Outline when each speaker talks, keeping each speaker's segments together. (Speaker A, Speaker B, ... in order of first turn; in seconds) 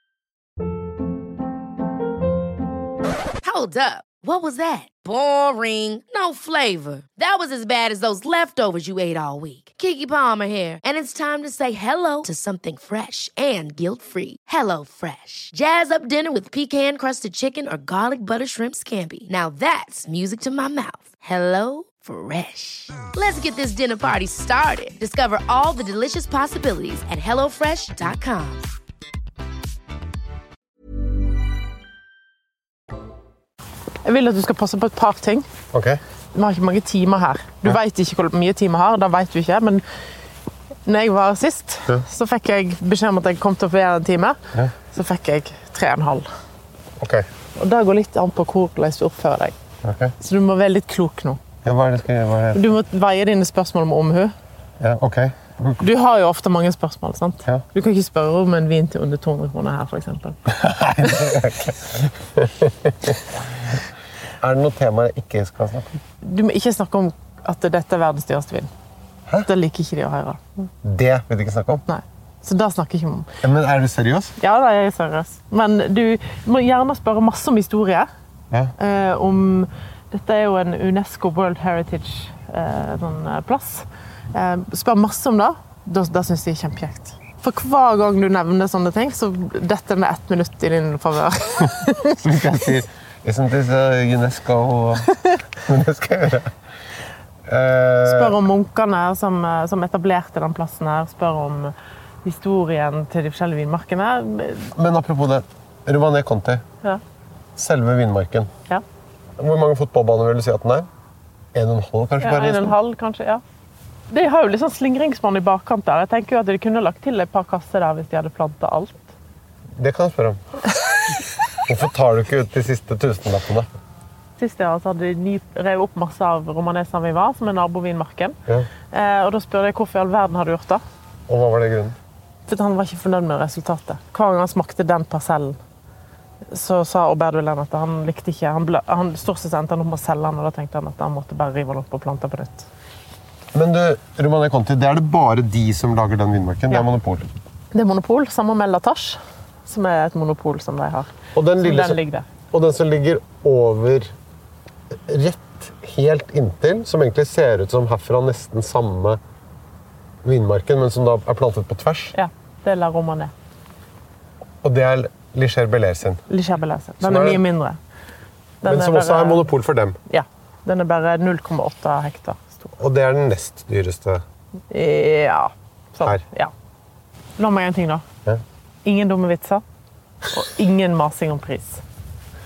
Speaker A: 3.4-28.7
Speaker B: 34.0-35.5, 36.3-39.8, 40.9-46.3, 47.6-49.6, 50.2-51.4, 52.5-54.3, 55.8-60.4, 66.2-68.7, 69.5-70.7, 71.9-73.3, 74.4-78.1, 78.8-92.4, 98.0-104.7, 112.2-113.4, 114.1-119.1, 124.4-128.4, 128.9-130.8, 132.5-135.6, 136.5-142.7, 147.7-152.3, 162.1-163.3, 166.3-167.8, 168.6-169.5, 170.1-172.7, 174.7-176.5, 177.4-178.1, 178.8-179.6, 180.3-181.8
Speaker C: 35.7-36.0, 47.0-47.3, 49.8-50.1, 51.6-52.6, 54.8-55.8, 60.5-63.8, 64.4-66.0, 70.8-71.8, 73.4-74.3, 92.2-96.5, 97.5-98.4, 104.8-106.6, 107.6-108.5, 109.4-110.9, 111.5-112.8, 119.8-120.4, 121.7-123.7, 131.3-132.0, 143.5-147.3, 151.3-154.2, 154.9-159.2, 160.2-162.2, 164.6-166.2, 167.0-167.4, 168.6-170.0, 172.8-174.2